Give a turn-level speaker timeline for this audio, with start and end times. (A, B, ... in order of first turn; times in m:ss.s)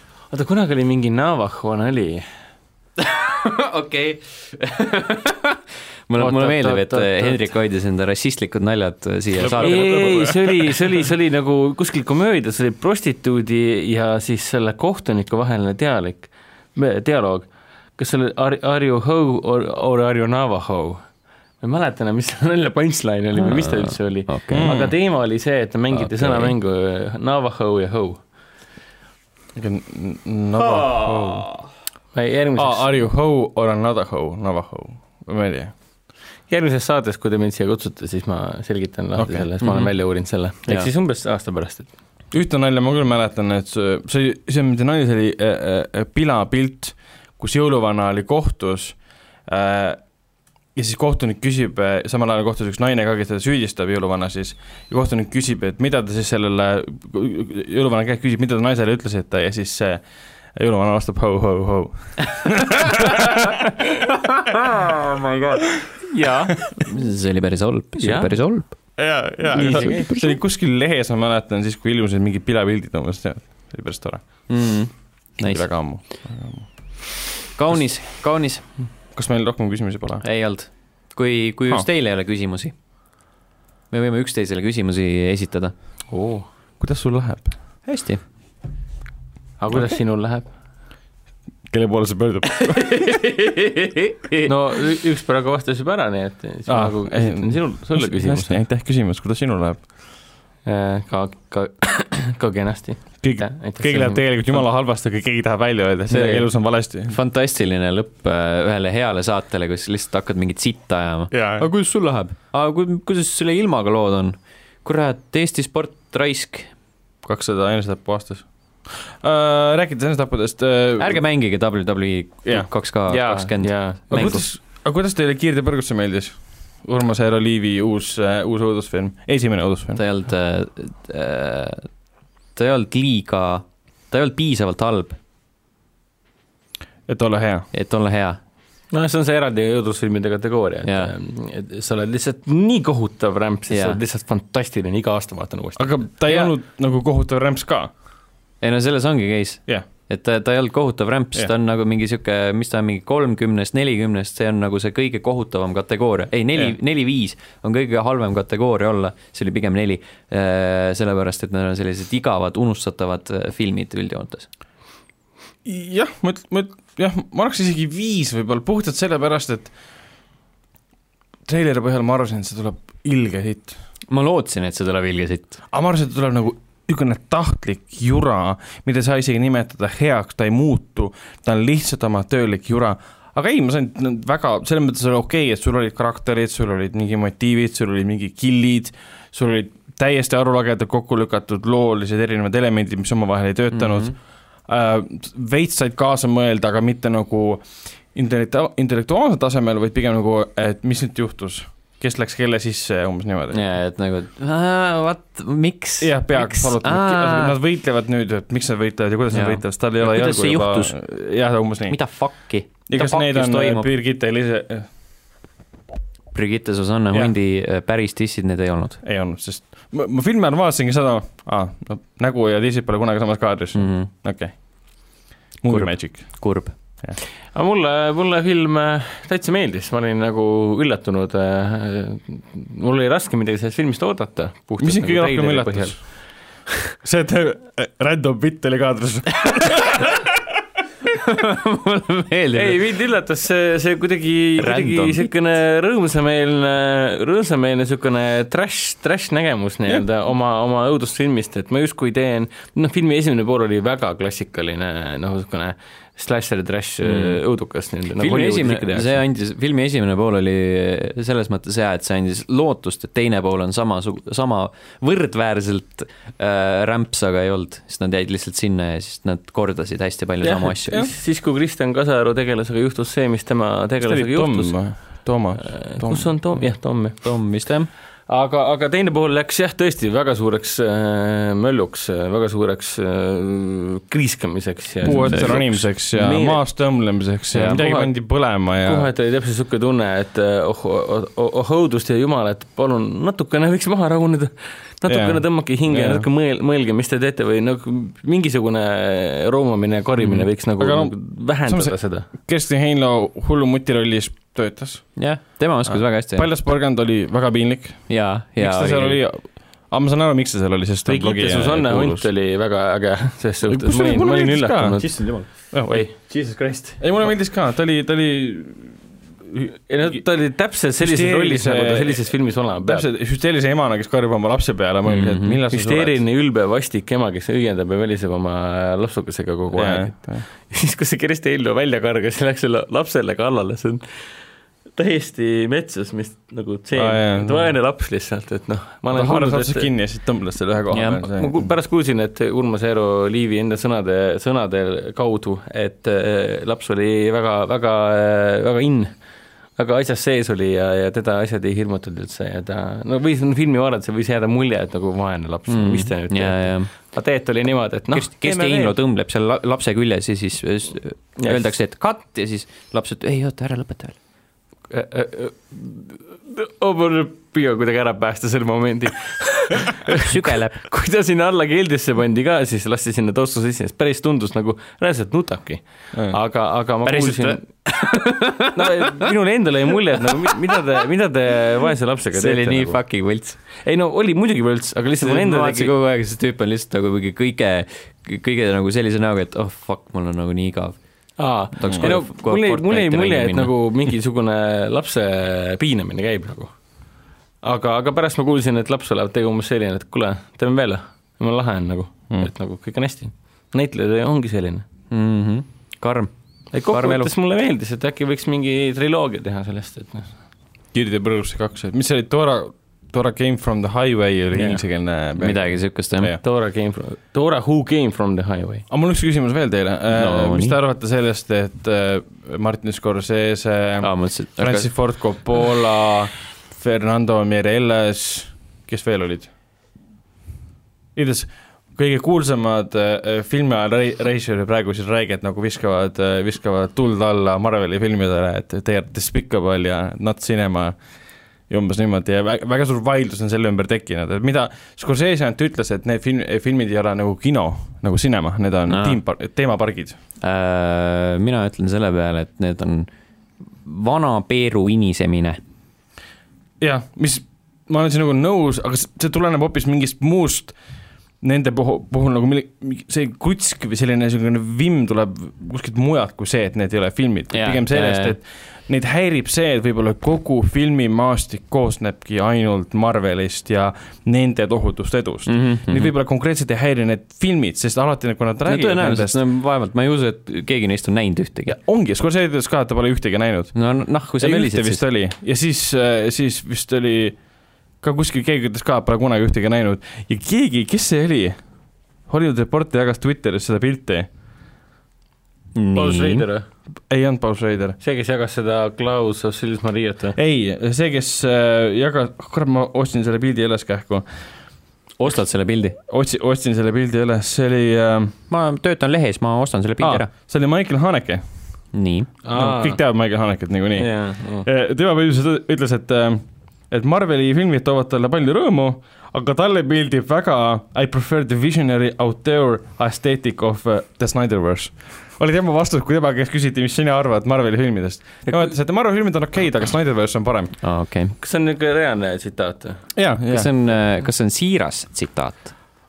0:00.3-0:02.3 A
0:03.0-0:10.2 B
0:06.2-0:07.5 A
0:09.4-0:10.9 C
0:09.6-0:21.0 A
0:21.6-0:28.2 A
0:23.4-0:24.7 B
0:24.5-0:24.9 C
0:25.9-0:26.5 B
0:29.5-0:31.5 C
0:32.1-0:33.0 A
0:32.6-0:35.7 C
0:36.5-0:41.9 A
0:39.2-0:39.5 C
0:39.6-0:40.9 B
0:42.3-0:50.1 C
0:50.7-1:00.0 C
1:00.5-1:03.4 C
1:04.4-1:05.7 B
1:06.1-1:06.6 A
1:06.5-1:09.0 B
1:08.0-1:08.3 A
1:09.0-1:14.2 C
1:09.5-1:10.4 B
1:09.5-1:10.1 A
1:14.5-1:15.7 B
1:15.4-1:16.7 C
1:17.6-1:18.6 B
1:19.1-1:20.2 C
1:20.2-1:22.7 B
1:23.9-1:25.7 B
1:26.1-1:26.5 A
1:26.8-1:27.5 C
1:27.8-1:28.2 B
1:29.6-1:30.5 A
1:31.7-1:33.0 C
1:32.7-1:34.5 B
1:34.4-1:38.5 A
1:36.7-1:39.9 C
1:40.6-1:44.6 A
1:43.2-1:47.2 C
1:46.1-1:46.4 A
1:46.1-1:46.4 B
1:47.1-1:56.7 B
1:51.3-1:51.7 C
1:57.2-2:01.2 C
2:01.0-2:04.5 B
2:02.4-2:02.7 C
2:03.1-2:04.1 A
2:04.1-2:10.0 C
2:10.0-2:11.9 B
2:12.5-2:15.2 B
2:17.1-2:17.6 C
2:17.7-2:18.4 B
2:18.9-2:26.4 A
2:20.8-2:21.1 B
2:23.7-2:24.0 B
2:25.8-2:27.9 C
2:28.6-2:44.5 B
2:45.6-2:49.7 C
2:51.4-2:53.7 C
2:54.1-2:55.6 B
2:55.7-3:23.6 C
3:13.7-3:14.1 B
3:23.5-3:27.6 B
3:26.0-3:32.0 C
3:29.3-3:31.1 B
3:31.9-3:33.9 B
3:32.9-3:34.9 C
3:36.3-3:39.0 B
3:39.0-3:46.4 C
3:43.7-3:44.1 B
3:45.7-3:46.7 B
3:47.5-3:56.2 A
3:54.8-3:56.1 C
3:57.0-4:00.2 C
4:01.1-4:02.8 B
4:02.5-4:19.2 A
4:04.6-4:05.3 B
4:17.0-4:17.4 B
4:18.2-4:31.0 B
4:30.4-4:37.6 A
4:34.0-4:36.3 C
4:37.0-4:37.9 B
4:38.3-4:46.6 A
4:45.0-4:49.1 C
4:45.0-4:45.8 B
4:47.5-4:47.8 B
4:47.7-4:48.1 A
4:48.8-5:02.3 A
4:55.1-4:56.2 C
5:00.2-5:00.5 B
5:00.8-5:05.2 C
5:05.2-5:06.5 B
5:05.8-5:12.3 C
5:08.1-5:09.2 B
5:11.0-5:17.0 A
5:13.7-5:15.0 C
5:15.0-5:15.5 B
5:15.7-5:16.1 C
5:16.1-5:16.4 B
5:17.0-5:19.0 C
5:19.9-5:23.0 A
5:21.0-5:22.3 C
5:22.8-5:26.2 C
5:25.0-5:25.6 B
5:25.7-5:34.0 A
5:29.7-5:30.4 C
5:34.9-5:39.9 A
5:37.0-5:37.7 C
5:39.1-5:41.7 C
5:40.9-5:41.3 B
5:41.3-5:49.2 A
5:49.7-5:58.9 A
5:55.7-5:57.1 B
5:58.1-6:04.2 B
6:01.4-6:01.7 A
6:04.9-6:17.8 A
6:10.1-6:10.9 B
6:17.0-6:18.9 B
6:18.7-6:23.0 A
6:22.3-6:23.6 B
6:23.7-6:25.9 A
6:25.2-6:31.0 B
6:31.4-6:36.7 A
6:31.7-6:33.8 B
6:31.8-6:32.1 C
6:37.6-6:44.8 A
6:45.1-6:47.3 B
6:46.7-6:50.3 A
6:50.9-6:56.4 C
6:54.5-6:54.8 A
6:55.4-6:56.4 B
6:56.4-6:58.8 A
6:58.9-7:09.5 C
7:00.1-7:00.8 B
7:04.0-7:04.9 B
7:11.1-7:21.0 C
7:21.7-7:30.2 C
7:28.9-7:29.2 B
7:30.4-7:33.1 B
7:33.8-7:35.6 B
7:36.8-7:40.8 C
7:41.4-7:59.4 C
7:47.5-7:48.4 B
7:55.5-7:56.1 B
7:58.6-8:01.8 B
8:01.7-8:03.7 C
8:03.7-8:05.0 B
8:04.4-8:07.4 C
8:08.0-8:11.6 C
8:12.3-8:14.3 C
8:15.7-8:16.5 B
8:15.9-8:16.7 A
8:17.1-8:18.0 C
8:18.0-8:20.4 A
8:20.4-8:24.2 C
8:25.2-8:26.0 B
8:26.1-8:28.3 C
8:28.5-8:30.3 B
8:30.0-8:31.4 C
8:31.9-8:32.3 B
8:32.4-8:33.0 A
8:32.5-8:50.8 C
8:34.0-8:34.6 A
8:50.8-8:51.4 B
8:51.4-8:53.0 A
8:53.2-8:53.7 C
8:53.4-8:55.7 B